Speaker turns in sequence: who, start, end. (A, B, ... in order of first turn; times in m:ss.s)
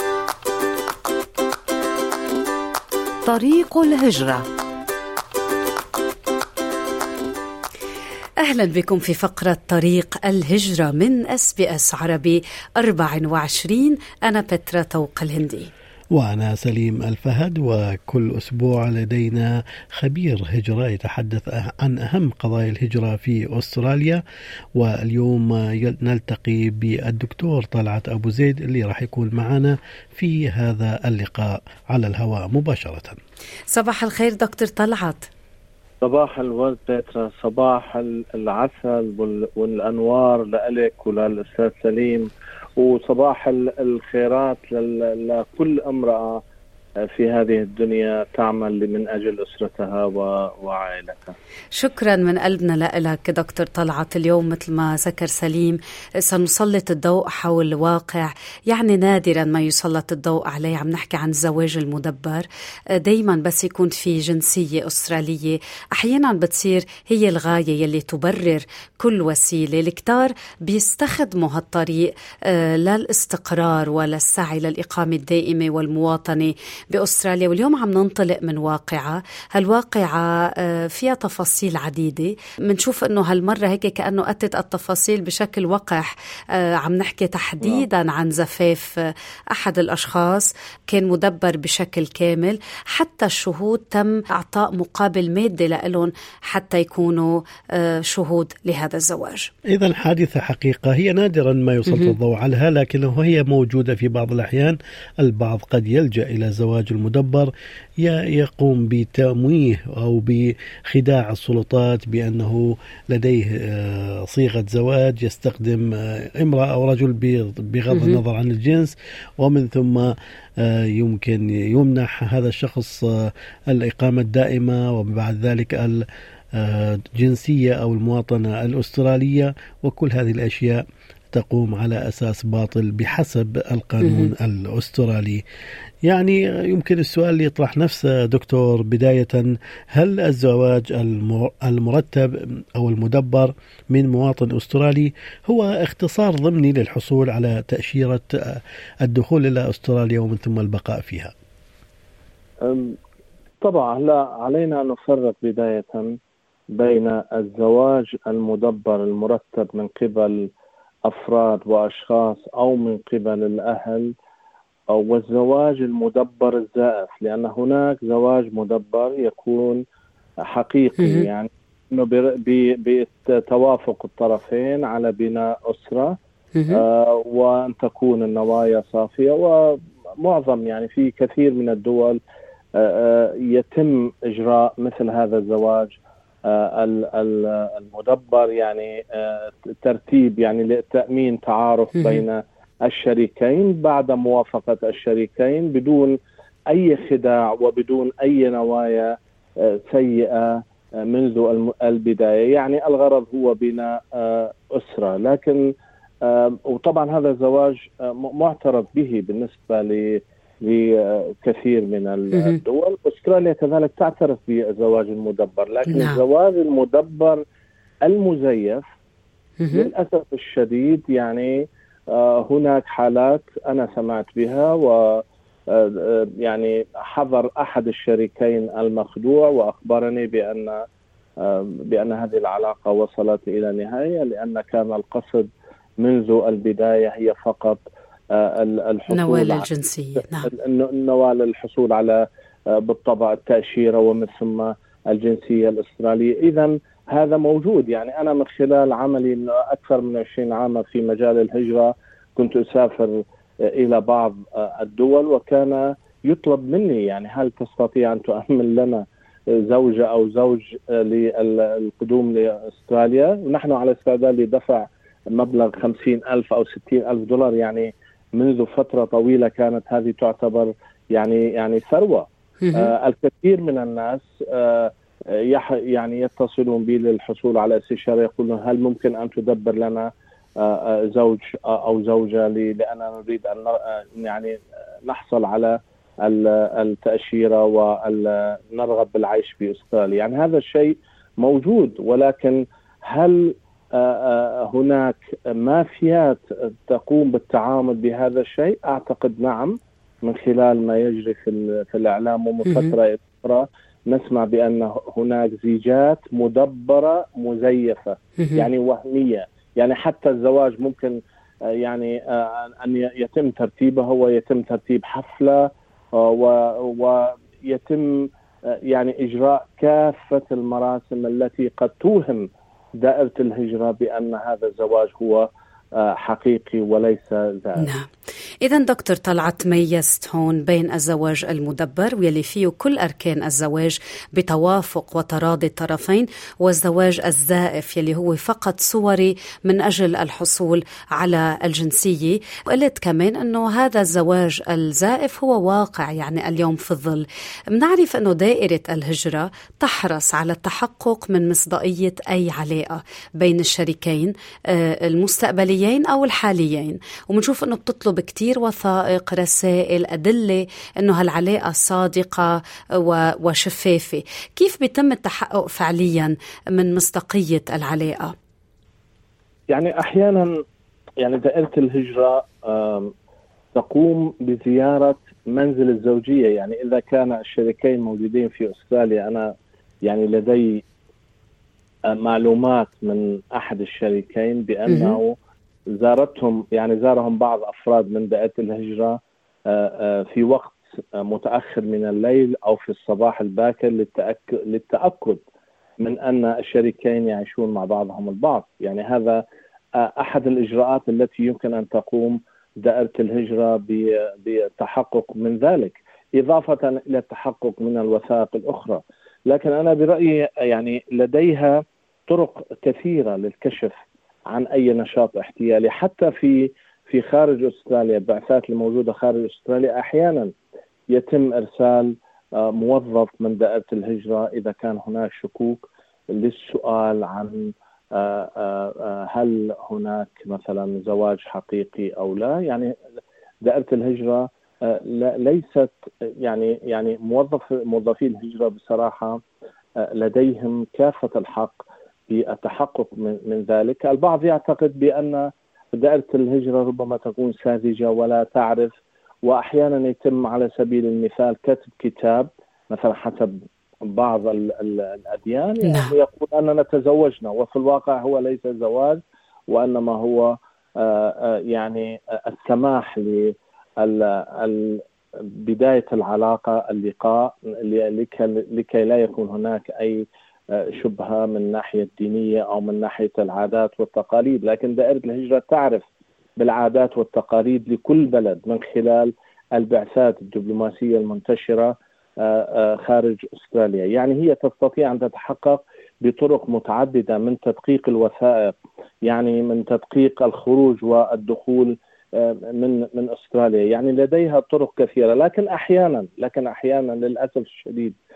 0:03.3-0:04.4 A
0:08.4-0:15.7 A
0:16.1-0:24.2 B
0:24.8-0:33.2 B
0:33.7-0:35.3 A
0:36.0-0:46.4 C
0:47.0-0:51.4 C
0:51.8-1:39.5 A
1:27.6-1:27.9 C
1:39.7-1:47.5 B
1:41.9-1:42.2 A
1:48.0-2:06.0 B
1:57.9-1:58.2 A
2:06.6-2:15.4 B
2:14.0-2:14.3 A
2:16.0-2:31.3 B
2:32.6-2:33.0 C
2:33.6-2:36.2 C
2:36.7-2:40.5 C
2:41.0-2:44.1 C
2:44.9-2:49.8 C
2:50.4-2:56.2 C
2:51.0-2:51.2 A
2:56.6-2:56.8 A
2:56.7-3:02.2 C
3:02.8-3:16.2 C
3:12.0-3:12.2 A
3:16.7-3:25.7 C
3:26.2-3:37.4 C
3:32.3-3:32.6 A
3:35.9-3:36.2 A
3:38.0-3:38.8 C
3:39.6-3:39.9 A
3:39.7-3:50.8 C
3:51.4-3:59.7 C
3:59.1-4:00.5 A
4:00.4-5:27.9 C
4:32.6-4:32.9 A
5:02.7-5:02.9 A
5:08.4-5:08.7 A
5:27.8-5:28.1 A
5:28.6-6:08.3 A
6:09.7-6:10.6 C
6:11.2-6:13.1 C
6:13.7-6:19.5 C
6:20.0-6:20.8 C
6:22.1-6:25.4 C
6:24.9-6:25.2 A
6:25.9-6:35.4 C
6:36.0-6:39.4 C
6:40.0-6:54.0 C
6:54.5-7:00.5 C
7:01.1-7:13.0 C
7:13.6-7:19.4 C
7:20.0-7:28.9 C
7:29.4-7:56.0 C
7:35.8-7:36.1 A
7:56.6-8:18.2 C